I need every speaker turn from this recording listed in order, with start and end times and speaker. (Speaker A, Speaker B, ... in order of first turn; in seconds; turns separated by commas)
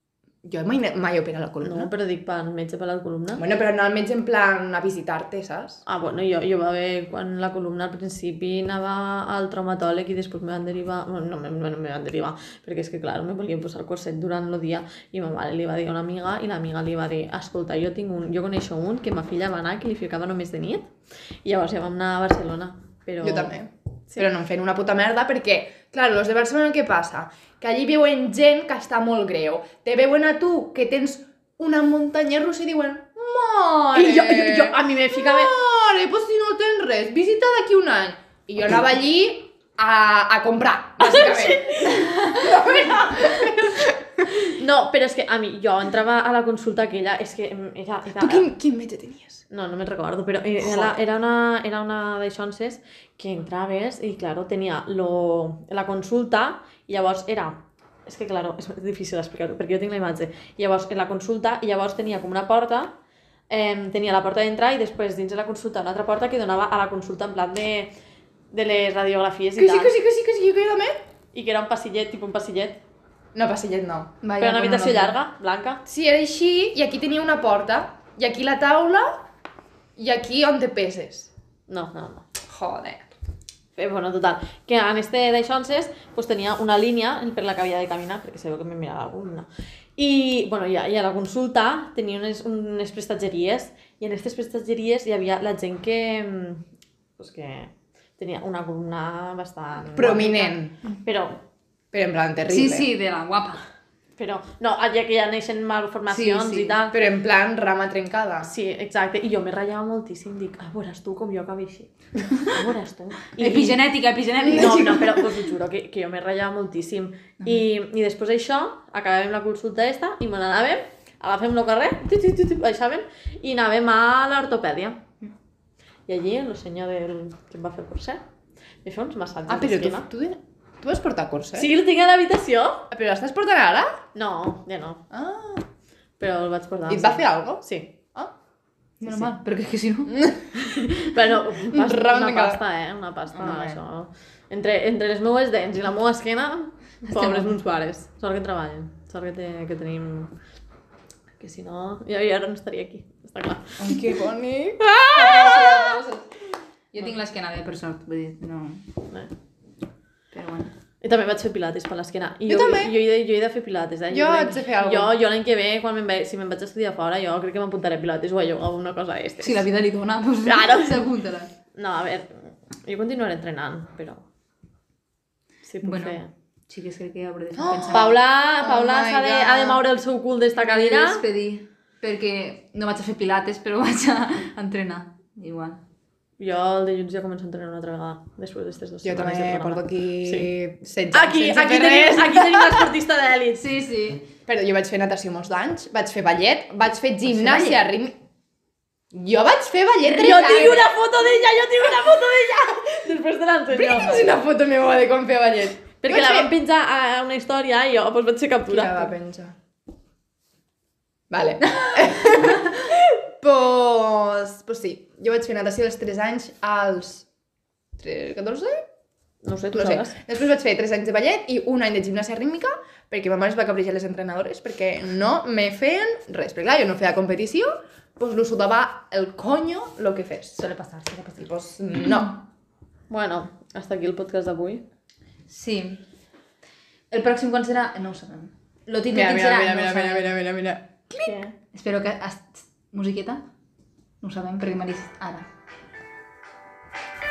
Speaker A: 0.4-1.9, Speaker B: 1.6-3.4, Speaker A: 3.4-5.8, Speaker B: 5.8-20.9, Speaker B: 21.4-23.5, Speaker A: 23.2-44.2, Speaker B: 33.9-35.5, Speaker B: 41.0-42.7, Speaker B: 44.4-48.5, Speaker A: 48.1-49.4, Speaker B: 49.5-62.9, Speaker A: 50.6-51.0, Speaker B: 63.5-67.9, Speaker B: 68.5-69.9, Speaker A: 69.6-71.0, Speaker B: 71.3-72.8, Speaker A: 73.3-74.2, Speaker C: 74.2-75.2, Speaker B: 74.4-75.8, Speaker A: 75.8-79.2, Speaker A: 80.0-81.3, Speaker B: 81.7-82.2, Speaker A: 82.5-83.1, Speaker B: 83.8-96.6, Speaker B: 97.2-101.4, Speaker A: 99.9-100.8, Speaker A: 101.9-102.9, Speaker C: 102.5-103.6, Speaker B: 104.2-107.0, Speaker C: 106.1-106.8, Speaker A: 106.9-108.5, Speaker B: 108.4-113.8, Speaker C: 113.4-115.3, Speaker B: 114.4-125.0, Speaker A: 114.6-114.9, Speaker B: 126.1-128.2, Speaker B: 128.8-130.1, Speaker A: 129.5-131.7, Speaker B: 131.5-132.9, Speaker A: 132.9-134.0, Speaker B: 134.1-135.0, Speaker A: 135.1-135.6, Speaker B: 136.2-137.9, Speaker A: 136.9-138.3, Speaker C: 139.0-140.1, Speaker A: 139.0-139.3, Speaker A: 140.1-141.1, Speaker B: 140.6-150.3, Speaker A: 141.7-142.6, Speaker A: 143.5-143.7, Speaker C: 147.1-147.6, Speaker B: 151.4-153.9, Speaker A: 153.8-156.0, Speaker C: 155.1-156.3, Speaker C: 156.9-158.8, Speaker C: 160.3-160.7, Speaker B: 161.0-169.7, Speaker A: 162.5-162.9, Speaker A: 164.1-165.2, Speaker C: 169.4-171.5, Speaker B: 170.4-171.0, Speaker B: 171.8-174.2, Speaker B: 175.6-176.3, Speaker C: 175.8-178.2, Speaker A: 177.6-179.8, Speaker B: 177.9-181.2, Speaker C: 180.6-185.8, Speaker B: 186.4-190.5, Speaker A: 189.0-192.9, Speaker B: 191.1-193.7, Speaker C: 193.6-194.3, Speaker A: 194.5-198.2, Speaker C: 197.2-197.8, Speaker A: 199.1-200.9, Speaker B: 200.2-204.2, Speaker A: 203.7-206.5, Speaker B: 206.0-209.1, Speaker A: 208.7-209.5, Speaker A: 211.3-217.3, Speaker C: 211.8-212.6, Speaker A: 218.0-218.8, Speaker B: 219.4-220.2, Speaker A: 219.7-230.7, Speaker C: 230.6-231.4, Speaker A: 231.3-232.4, Speaker B: 233.1-234.8, Speaker C: 235.5-236.0, Speaker C: 237.1-240.4, Speaker A: 239.1-241.3, Speaker B: 241.2-241.5, Speaker C: 241.7-243.4, Speaker C: 244.2-245.5